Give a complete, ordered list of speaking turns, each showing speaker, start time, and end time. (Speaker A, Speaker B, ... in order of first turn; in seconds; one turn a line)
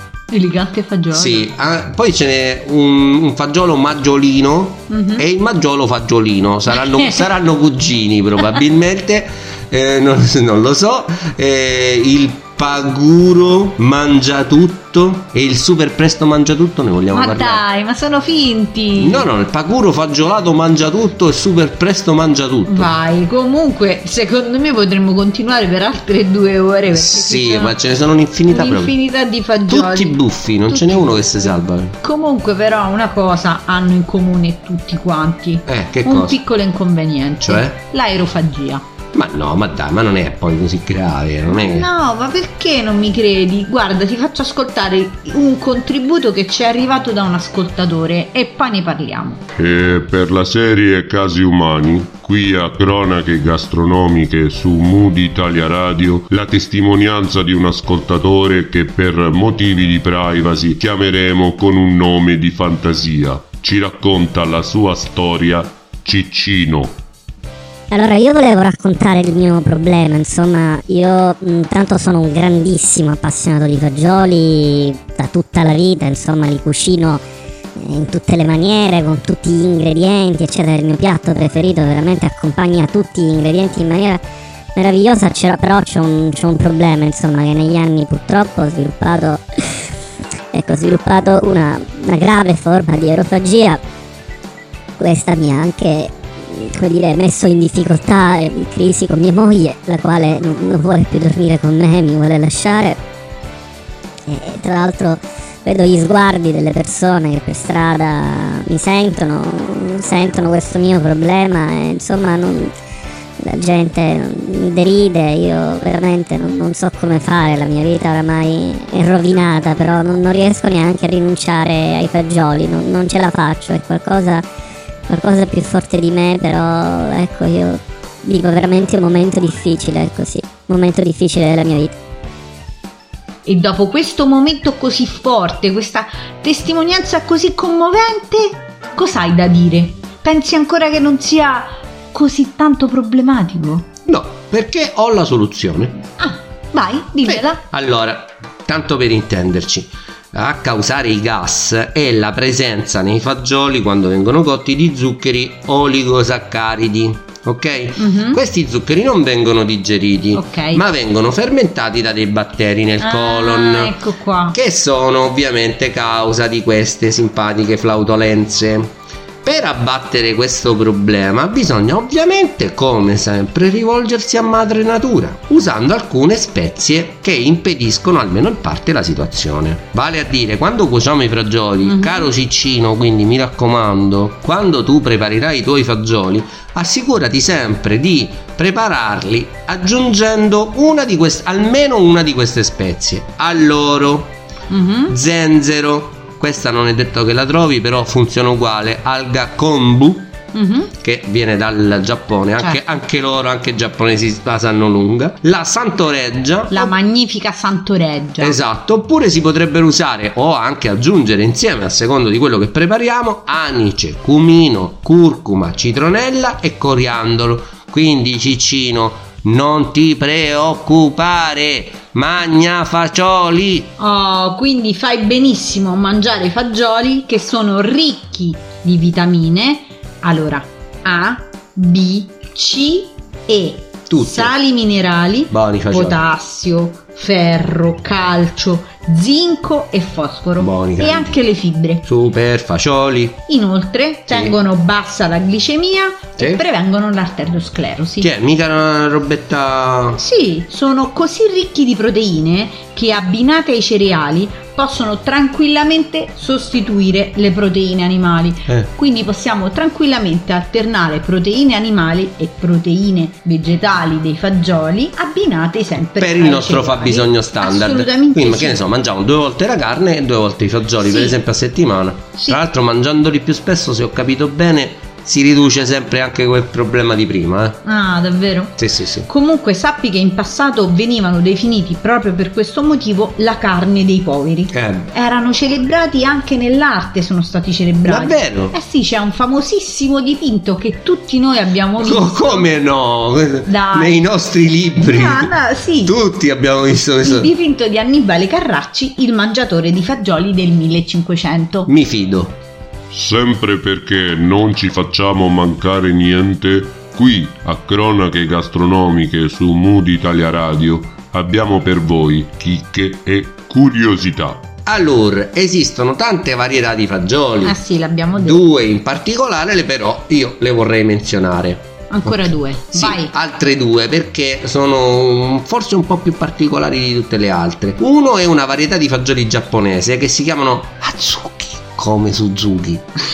Speaker A: 0.3-1.5
Speaker B: 1.1-17.6
Speaker A: 4.9-5.2
Speaker A: 6.7-7.2
Speaker A: 17.1-19.3
Speaker B: 19.0-22.9
Speaker A: 22.6-27.8
Speaker B: 26.9-28.9
Speaker A: 28.5-31.2
Speaker B: 29.7-32.0
Speaker A: 32.0-38.8
Speaker B: 35.6-36.4
Speaker B: 37.4-37.8
Speaker B: 39.1-41.9
Speaker A: 41.5-49.4
Speaker C: 49.6-67.0
Speaker D: 67.9-77.2
Speaker D: 77.8-84.2
Speaker D: 84.8-89.9
Speaker D: 90.5-93.8
Speaker D: 95.0-103.0
Speaker D: 104.3-112.7
Speaker D: 113.4-124.4
Speaker D: 125.1-131.9
Speaker A: 133.4-143.9
Speaker B: 144.1-146.0
Speaker A: 146.2-147.6
Speaker B: 147.2-163.9
Speaker A: 158.0-158.4
Speaker A: 160.3-160.8
Speaker A: 163.0-164.6
Speaker B: 164.5-194.3
Speaker A: 181.8-182.3
Speaker A: 194.7-195.2
Speaker B: 195.1-200.3
Speaker A: 200.5-200.9
Speaker B: 200.9-206.9
Speaker A: 206.7-208.6
Speaker B: 208.4-223.9
Speaker A: 224.0-242.1
Speaker B: 234.1-234.5
Speaker B: 235.5-236.2
Speaker B: 240.6-241.3
Speaker B: 242.0-243.4
Speaker A: 243.5-248.3
Speaker B: 244.3-244.6
Speaker B: 246.4-246.6
Speaker B: 248.2-250.2
Speaker A: 250.1-268.8
Speaker B: 266.2-277.8
Speaker A: 271.0-271.4
Speaker A: 277.8-278.8
Speaker B: 278.8-279.3
Speaker A: 279.3-292.7
Speaker B: 284.7-285.1
Speaker B: 288.1-288.7
Speaker B: 292.0-295.5
Speaker A: 293.6-294.2
Speaker A: 295.0-296.1
Speaker B: 296.0-297.5
Speaker A: 297.2-301.9
Speaker B: 301.9-302.6
Speaker C: 303.1-314.7
Speaker B: 314.9-317.8
Speaker A: 317.6-318.6
Speaker B: 318.4-333.1
Speaker A: 322.1-323.3